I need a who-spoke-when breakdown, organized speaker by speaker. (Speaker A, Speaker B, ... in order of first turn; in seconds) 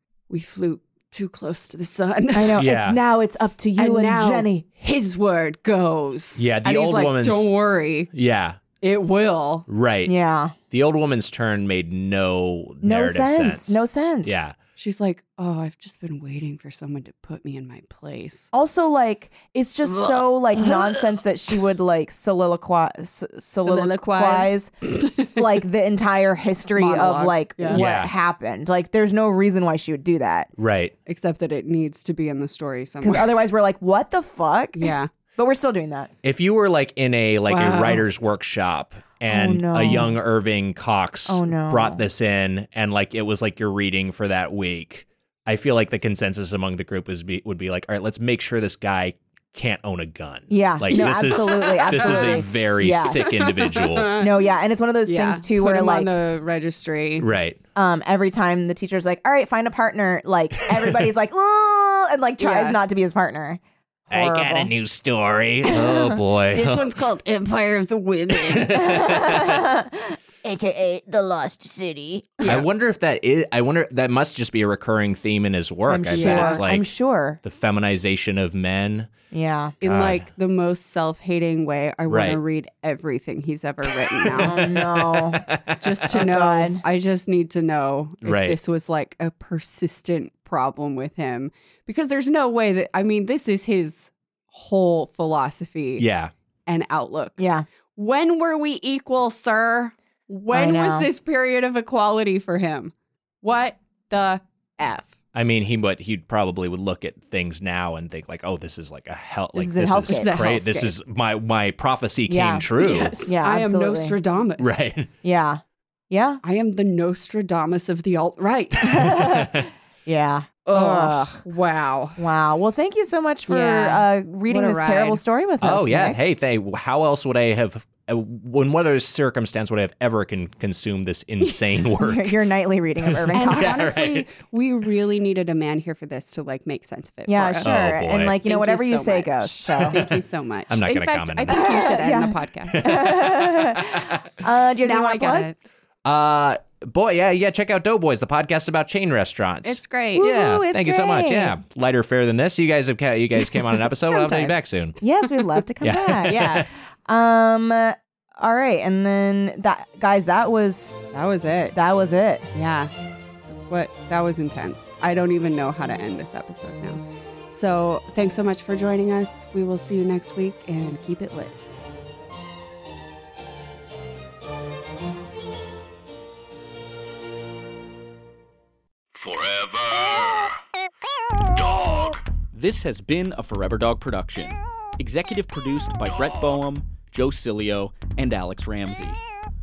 Speaker A: 0.3-2.6, 3.8-8.1, 8.8-9.7, 14.8-18.5, 19.9-21.0, 23.6-25.4, 26.8-27.8, 31.1-33.4, 34.7-35.1, 37.5-38.0, 51.0-52.5, 53.1-54.3, 55.0-57.2, 62.4-62.8, 66.5-68.8, 76.1-76.6, 79.8-84.7, 85.8-96.0, 96.7-97.4, 98.0-105.1, 110.1-110.9, 112.8-114.9, 116.4-119.2, 120.7-122.2, 123.5-125.2, 133.3-137.8, 138.4-143.1, 144.8-145.6, 149.6-150.3, 154.0-154.6, 156.2-156.7, 161.1-161.8, 162.5-162.9, 163.5-171.6
Speaker B: 2.3-4.6, 10.1-10.5, 12.8-14.4, 18.5-30.5, 33.0-36.1, 39.3-40.2, 41.3-42.0, 50.5-53.5, 54.1-56.1, 57.8-64.7, 65.7-66.2, 68.7-72.6, 75.9-77.4, 79.3-79.7, 84.3-85.4, 86.1-86.8, 97.4-97.7, 100.5-101.1, 109.5-110.9, 112.3-114.1, 115.2-116.4, 118.8-121.4, 122.2-126.2, 132.0-134.0, 137.3-140.0, 141.5-145.5, 150.2-151.6, 155.0-161.0, 161.7-162.5
Speaker C: 2.6-3.0, 6.3-7.5, 8.1-8.6, 9.7-10.1, 10.7-14.5, 27.7-28.1, 30.6-30.9, 36.2-54.2, 57.2-57.6, 64.1-67.0, 68.3-69.7, 72.4-76.9, 77.4-79.1, 79.8-80.3, 82.1-82.4, 84.3-85.8, 88.2-88.6, 96.0-96.3, 105.3-113.2, 114.6-115.1, 119.0-119.7, 125.6-132.4, 133.1-134.3, 137.6-138.3, 139.8-140.2, 140.7-141.7, 142.7-143.6, 146.0-155.0, 155.8-156.7
Speaker D: 179.2-180.5, 181.5-182.2
Speaker E: 182.5-189.2